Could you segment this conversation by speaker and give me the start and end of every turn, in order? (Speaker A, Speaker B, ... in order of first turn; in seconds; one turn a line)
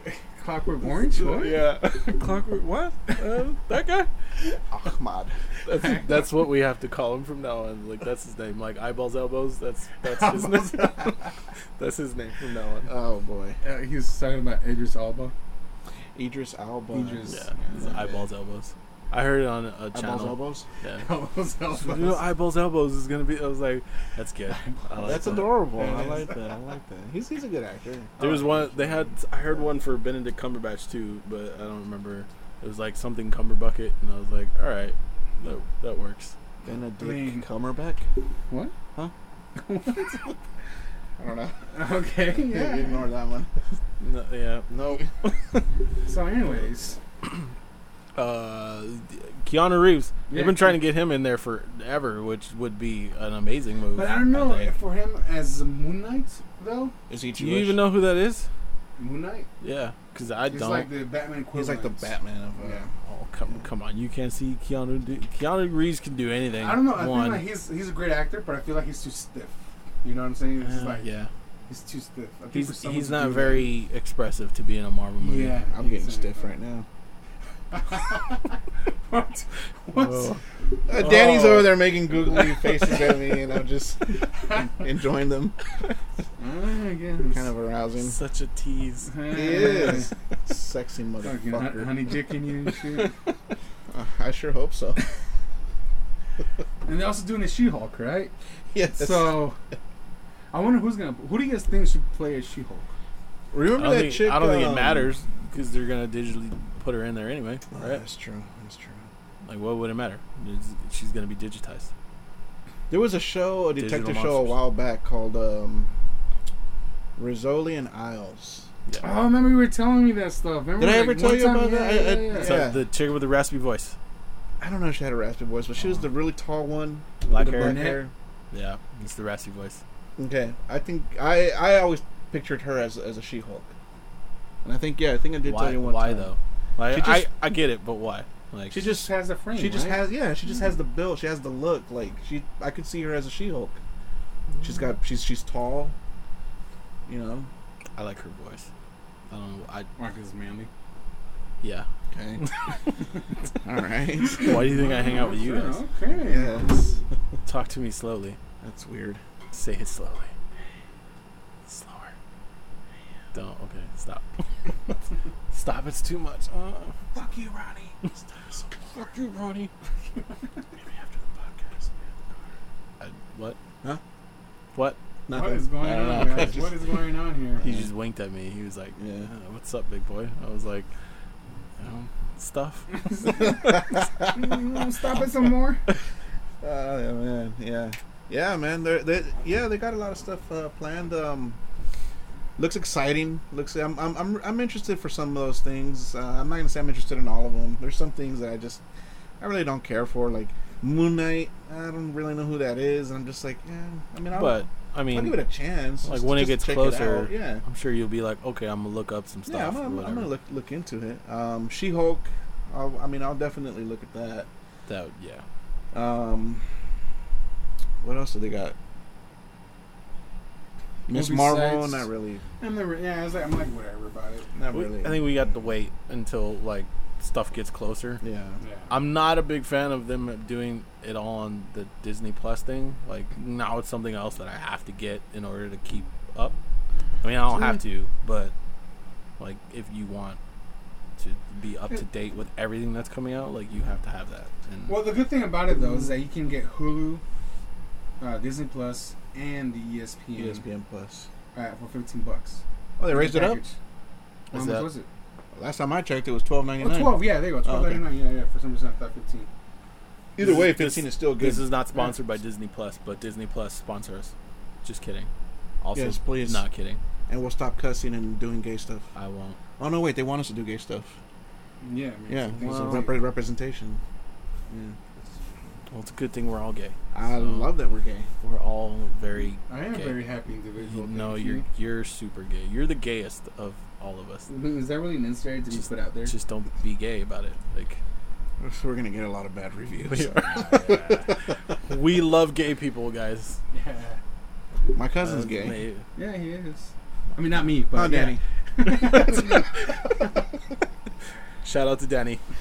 Speaker A: 0.4-1.6
Speaker B: 1.1-4.1
Speaker C: 4.7-5.3
Speaker B: 5.6-11.2
Speaker A: 5.7-6.2
Speaker A: 10.0-11.3
Speaker B: 11.8-12.9
Speaker C: 12.9-13.6
Speaker A: 13.6-15.3
Speaker C: 16.1-17.2
Speaker A: 16.9-18.0
Speaker B: 17.3-21.1
Speaker C: 17.8-18.2
Speaker C: 19.9-20.6
Speaker A: 21.0-22.2
Speaker B: 21.8-25.5
Speaker A: 24.5-26.4
Speaker C: 25.0-28.1
Speaker A: 28.2-29.1
Speaker B: 28.2-36.3
Speaker C: 36.6-38.1
Speaker A: 37.0-37.4
Speaker A: 39.5-40.3
Speaker C: 41.2-41.7
Speaker A: 41.7-43.0
Speaker C: 42.3-43.5
Speaker B: 44.0-45.7
Speaker A: 46.0-47.0
Speaker B: 48.1-54.7
Speaker A: 50.3-50.8
Speaker A: 53.9-56.9
Speaker C: 57.1-57.8
Speaker B: 57.4-58.5
Speaker A: 59.0-59.5
Speaker B: 59.6-60.9
Speaker A: 60.5-62.0
Speaker C: 61.5-62.8
Speaker A: 62.6-62.9
Speaker B: 63.0-67.4
Speaker A: 66.6-71.0
Speaker B: 70.6-71.3
Speaker A: 71.7-73.7
Speaker B: 72.5-75.6
Speaker A: 75.2-76.5
Speaker C: 75.8-76.8
Speaker A: 77.7-78.5
Speaker A: 79.0-80.3
Speaker B: 79.9-80.4
Speaker C: 80.9-85.6
Speaker B: 81.0-81.4
Speaker A: 81.0-81.6
Speaker A: 82.2-83.1
Speaker A: 86.4-87.4
Speaker C: 87.3-88.2
Speaker B: 88.0-89.3
Speaker A: 89.1-90.1
Speaker C: 89.3-91.9
Speaker A: 91.2-93.1
Speaker C: 93.9-95.0
Speaker A: 96.8-98.3
Speaker C: 98.7-99.4
Speaker A: 98.9-99.6
Speaker A: 100.5-102.9
Speaker C: 103.5-105.1
Speaker B: 103.8-108.0
Speaker C: 107.7-109.1
Speaker B: 109.4-111.9
Speaker C: 112.9-115.9
Speaker B: 113.8-114.6
Speaker C: 117.2-118.7
Speaker A: 119.0-122.6
Speaker C: 120.8-122.8
Speaker B: 122.3-124.0
Speaker C: 124.6-128.1
Speaker B: 125.8-126.0
Speaker B: 127.3-128.0
Speaker A: 127.4-128.0
Speaker B: 128.5-129.8
Speaker C: 130.2-133.7
Speaker C: 134.6-136.3
Speaker B: 135.4-138.8
Speaker C: 136.9-137.3
Speaker A: 138.7-140.1
Speaker C: 138.7-143.8
Speaker B: 144.5-144.8
Speaker C: 144.6-145.9
Speaker C: 147.1-147.5
Speaker B: 147.9-148.7
Speaker B: 149.3-149.9
Speaker A: 150.0-150.7
Speaker B: 151.6-151.9
Speaker C: 152.1-152.4
Speaker B: 152.4-152.8
Speaker C: 153.6-154.6
Speaker B: 154.3-155.8
Speaker A: 154.3-156.6
Speaker C: 156.1-157.0
Speaker B: 157.4-158.4
Speaker C: 158.6-159.2
Speaker B: 159.5-160.3
Speaker B: 161.7-162.1
Speaker B: 163.3-165.0
Speaker B: 165.5-166.9
Speaker A: 167.1-168.0
Speaker B: 168.8-169.7
Speaker B: 170.8-171.8
Speaker B: 173.0-173.6
Speaker C: 175.3-176.7
Speaker A: 175.3-177.6
Speaker B: 177.6-180.9
Speaker C: 179.0-179.3
Speaker B: 181.8-183.8
Speaker A: 183.1-185.8
Speaker C: 183.6-184.5
Speaker C: 186.6-191.6
Speaker C: 192.6-198.8
Speaker C: 199.4-207.6
Speaker B: 204.3-205.4
Speaker B: 206.0-210.3
Speaker C: 209.5-214.5
Speaker B: 214.9-215.4
Speaker C: 215.9-216.8
Speaker C: 218.0-218.7
Speaker C: 221.1-222.4
Speaker A: 221.1-222.1
Speaker A: 222.6-224.5
Speaker C: 224.5-225.3
Speaker B: 224.7-228.2
Speaker C: 228.2-228.6
Speaker A: 228.6-228.9
Speaker B: 228.9-236.5
Speaker B: 237.2-238.5
Speaker A: 237.5-237.7
Speaker B: 239.4-240.4
Speaker B: 241.2-245.0
Speaker A: 244.9-247.2
Speaker A: 248.2-250.6
Speaker C: 250.3-251.3
Speaker A: 251.5-253.7
Speaker C: 253.0-253.6
Speaker B: 254.5-254.9
Speaker A: 254.5-255.1
Speaker C: 255.5-258.0
Speaker A: 256.8-259.5
Speaker C: 260.3-261.7
Speaker B: 260.4-265.3
Speaker B: 265.8-267.0
Speaker C: 265.9-266.6
Speaker C: 267.3-269.1
Speaker B: 269.1-269.6
Speaker C: 269.8-271.1
Speaker A: 271.8-273.2
Speaker C: 272.3-274.0
Speaker B: 272.6-273.1
Speaker A: 274.7-275.2
Speaker B: 275.9-277.7
Speaker C: 277.1-278.3
Speaker B: 278.4-280.2
Speaker A: 279.7-281.6
Speaker B: 280.8-284.5
Speaker A: 284.5-286.3
Speaker B: 286.2-288.0
Speaker C: 288.6-291.0
Speaker B: 290.1-291.3
Speaker A: 290.6-291.1
Speaker B: 291.9-293.6
Speaker A: 293.7-294.2
Speaker C: 294.9-295.8
Speaker B: 295.2-296.1
Speaker A: 296.1-299.8
Speaker C: 297.9-298.4
Speaker B: 299.1-299.6
Speaker B: 301.6-302.4